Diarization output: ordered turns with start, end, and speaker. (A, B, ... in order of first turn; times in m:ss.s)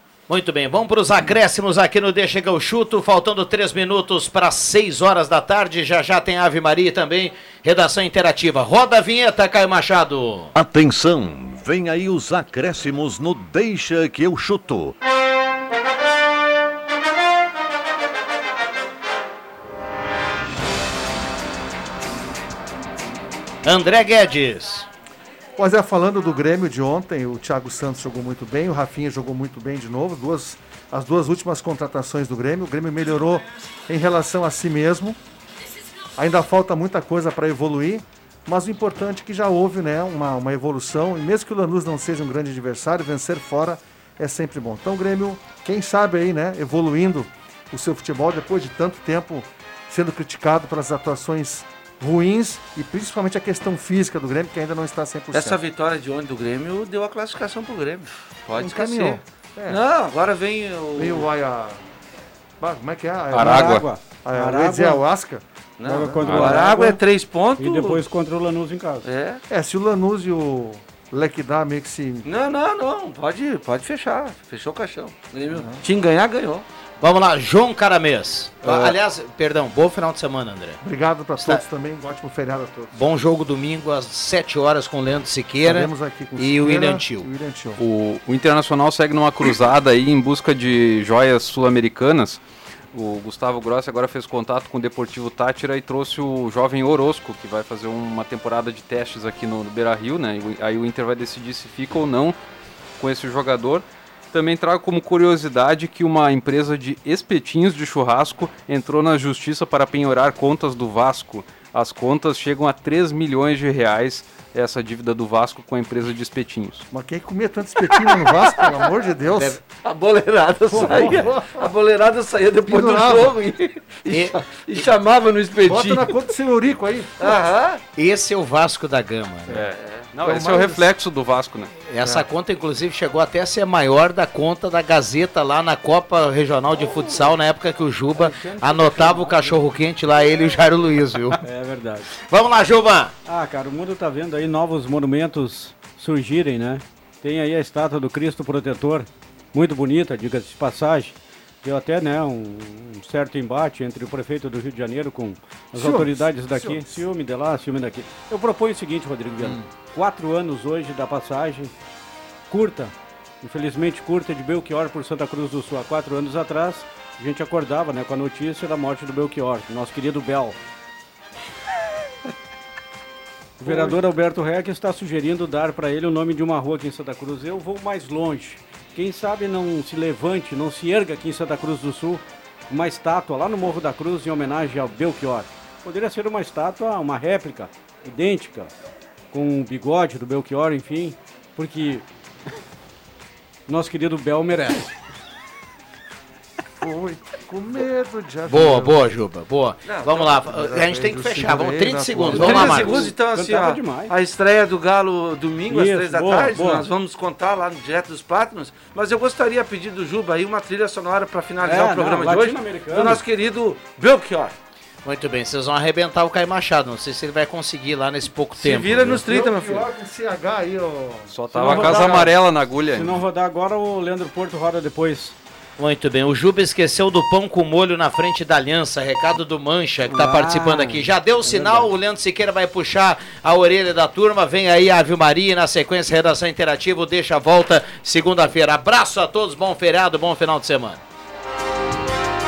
0:00.3-0:10.5 A
0:10.5-0:14.9 B
0:23.6-0:24.9 A
0:25.6-0:35.2 C
0:36.2-0:55.6 C
0:55.3-1:01.3 D
0:58.5-0:59.8 C
1:01.0-1:01.8 C
1:02.6-1:05.4 C
1:03.3-1:03.9 E
1:03.3-1:05.0 F
1:05.8-1:08.0 D
1:05.8-1:07.0 F
1:06.2-1:06.6 E
1:07.6-1:09.1 F
1:09.0-1:09.4 D
1:09.5-1:12.3 C
1:12.2-1:16.6 D
1:15.5-1:15.8 C
1:17.0-1:20.8 A
1:18.6-1:19.0 C
1:20.8-1:22.9 C
1:21.4-1:21.6 A
1:22.9-1:27.3 A
1:25.6-1:27.8 C
1:27.8-1:32.4 E
1:32.9-1:42.4 E
1:43.0-1:56.9 E
1:56.9-1:59.6 C
1:58.0-1:58.9 D
1:59.6-2:06.3 D
2:00.7-2:01.7 C
2:02.6-2:03.4 C
2:04.1-2:04.4 A
2:05.6-2:07.4 C
2:07.2-2:07.8 D
2:08.0-2:09.6 A
2:09.5-2:11.7 E
2:09.6-2:10.1 D
2:10.2-2:10.9 C
2:11.9-2:21.4 A
2:18.2-2:19.4 F
2:21.4-2:22.1 F
2:22.2-2:23.1 A
2:23.2-2:41.7 F
2:35.7-2:37.0 C
2:39.4-2:39.6 A
2:42.5-2:50.6 F
2:53.6-3:08.7 F
3:09.3-3:12.0 F
3:13.7-3:14.9 F
3:16.8-3:19.0 C
3:18.5-3:23.1 A
3:19.8-3:20.7 D
3:20.3-3:23.0 C
3:22.3-3:34.6 D
3:22.3-3:24.1 F
3:25.7-3:26.8 F
3:31.6-3:33.2 F
3:35.0-3:39.2 A
3:38.6-3:39.9 D
3:39.2-3:42.3 C
3:41.3-3:43.2 E
3:41.5-3:42.3 F
3:42.9-3:45.4 F
3:45.8-4:01.0 A
3:50.1-3:51.9 F